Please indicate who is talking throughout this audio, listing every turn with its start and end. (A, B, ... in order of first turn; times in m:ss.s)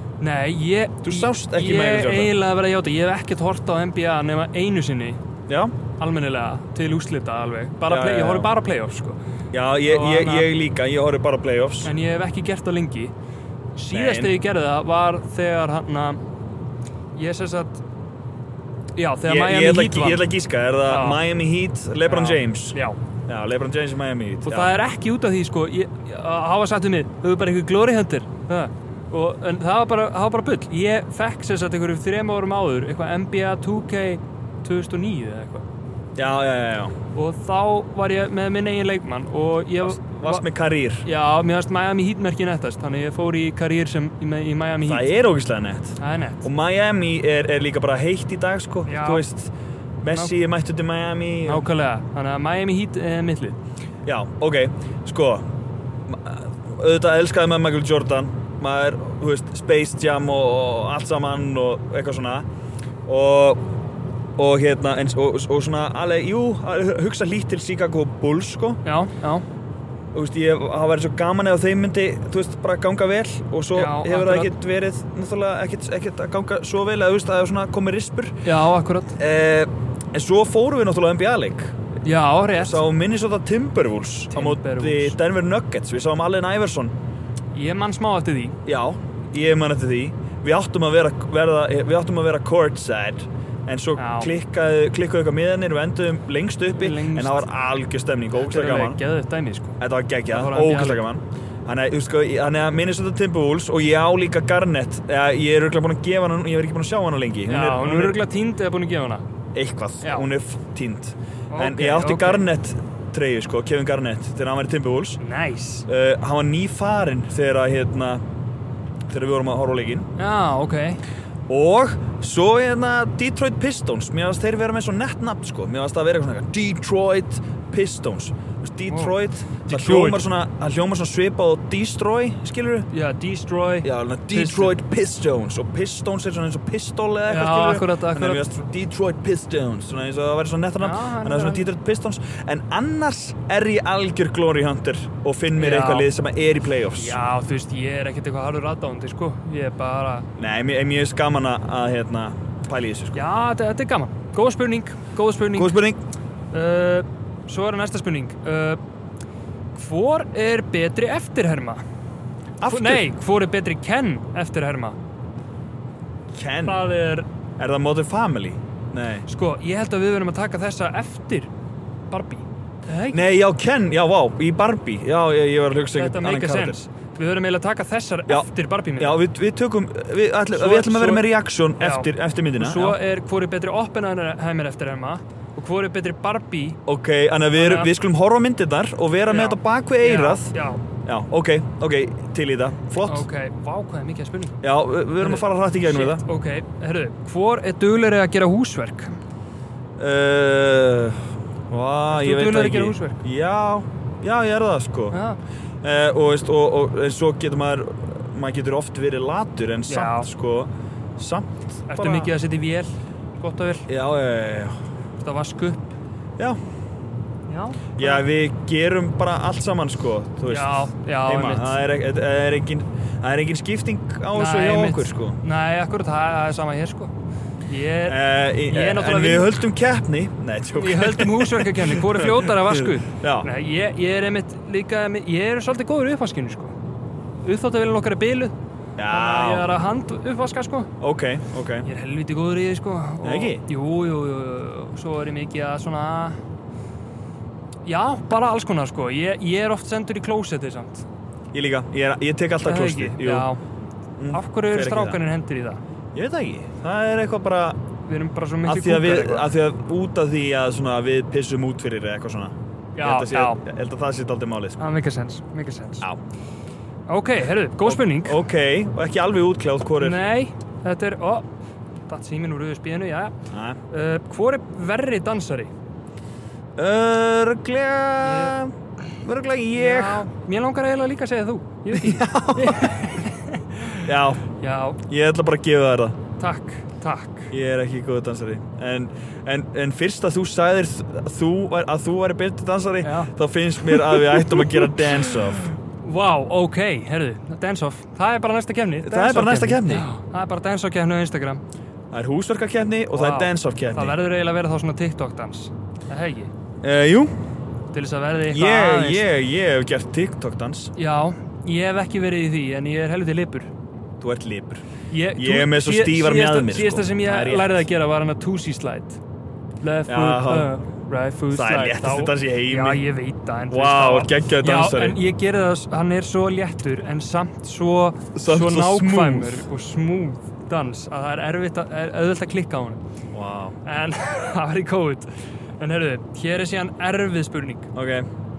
0:00.2-0:05.2 A
0:01.0-0:02.3 B
0:05.5-0:05.7 B
0:06.0-0:09.2 A
0:07.9-0:08.5 B
0:09.5-0:11.9 B
0:09.8-0:10.5 A
0:11.8-0:13.1 A
0:13.8-0:16.2 A
0:13.9-0:14.3 B
0:17.1-0:17.8 A
0:19.0-0:20.2 A
0:19.2-0:22.8 B
0:20.8-0:21.2 A
0:22.0-0:23.0 A
0:23.3-0:24.7 B
0:24.4-0:35.6 A
0:36.2-0:36.9 B
0:37.1-0:40.4 A
0:39.8-0:41.0 B
0:41.0-0:45.1 A
0:44.8-0:51.6 B
0:46.0-0:46.4 A
0:48.8-0:49.2 A
0:51.4-0:53.6 A
0:54.0-0:55.4 B
0:56.1-1:02.4 B
1:03.0-1:03.6 B
1:04.4-1:08.8 B
1:08.8-1:09.4 A
1:10.1-1:18.4 B
1:13.7-1:14.5 A
1:18.4-1:19.2 A
1:19.2-1:21.7 B
1:22.0-1:22.8 A
1:22.5-1:26.9 B
1:24.3-1:25.2 A
1:27.5-1:28.6 A
1:28.6-1:39.0 B
1:34.0-1:34.3 A
1:36.7-1:37.5 A
1:38.4-1:39.8 A
1:39.8-1:48.2 B
1:40.3-1:41.0 A
1:47.5-1:49.2 A
1:49.5-1:55.2 B
1:50.0-1:50.3 A
1:51.5-1:52.4 A
1:55.2-1:55.8 A
1:55.9-1:58.2 B
1:59.1-2:00.1 B
2:00.2-2:01.0 A
2:01.5-2:12.9 B
2:08.9-2:10.2 A
2:12.9-2:14.7 A
2:13.8-2:27.2 B
2:17.3-2:18.4 A
2:20.8-2:21.7 A
2:25.6-2:26.1 A
2:27.0-2:30.3 A
2:30.4-2:33.2 B
2:33.1-2:35.8 A
2:35.5-2:36.0 B
2:36.5-2:38.8 A
2:39.7-2:41.8 A
2:42.6-2:43.1 B
2:42.7-2:45.0 A
2:46.3-2:46.8 B
2:46.6-2:47.2 A
2:47.6-2:49.2 B
2:49.3-2:51.5 A
2:52.1-2:53.2 A
2:53.1-2:56.8 B
2:55.9-2:59.2 A
2:58.3-3:03.0 B
3:00.5-3:06.8 A
3:06.8-3:10.5 B
3:07.5-3:07.9 A
3:09.3-3:10.8 A
3:11.0-3:13.3 B
3:13.0-3:14.6 A
3:14.6-3:16.2 B
3:15.2-3:19.1 A
3:20.0-3:25.2 B
3:22.1-3:23.2 A
3:25.1-3:25.4 A
3:25.8-3:32.3 B
3:29.9-3:30.3 A
3:31.9-3:33.9 A
3:33.9-3:34.8 B
3:35.2-3:35.9 A
3:37.5-3:38.2 A
3:38.0-3:45.4 B
3:40.5-3:41.8 A
3:44.3-3:47.1 A
3:47.7-3:49.5 A
3:48.0-3:53.5 B
3:50.7-3:56.7 A
3:57.4-3:58.5 A
3:59.0-3:59.7 B
3:59.1-4:00.9 A
4:01.0-4:01.8 B
4:01.8-4:06.4 A
4:03.2-4:03.6 B
4:07.8-4:11.1 A
4:11.5-4:13.5 B
4:12.6-4:13.6 A
4:14.2-4:15.2 B
4:14.3-4:15.8 A
4:16.1-4:17.8 B
4:18.1-4:19.5 A
4:18.6-4:24.8 B
4:22.9-4:23.6 A
4:24.8-4:26.1 A
4:27.1-4:28.4 A
4:27.8-4:30.2 B
4:30.0-4:31.5 A
4:32.1-4:33.3 A
4:33.5-4:33.8 B
4:33.9-4:35.7 A
4:36.8-4:40.2 B
4:38.2-4:38.6 A
4:39.7-4:45.0 A
4:41.9-4:43.0 B
4:44.0-4:44.4 B
4:45.0-4:46.2 B
4:46.4-4:47.5 A
4:47.5-4:55.6 B
4:53.0-4:53.3 A
4:53.8-5:01.6 A
4:59.0-5:00.1 B
5:02.1-5:04.2 B
5:03.1-5:06.5 A
5:06.8-5:07.4 B
5:07.9-5:09.3 A
5:08.5-5:10.9 B
5:11.0-5:13.7 A
5:14.2-5:14.8 B
5:15.1-5:19.2 A
5:15.4-5:17.8 B
5:19.8-5:33.0 A
5:20.1-5:20.7 B
5:21.5-5:23.0 B
5:23.7-5:25.2 B
5:28.3-5:29.6 B
5:33.3-5:33.8 B
5:33.8-5:37.9 A
5:37.9-5:38.3 B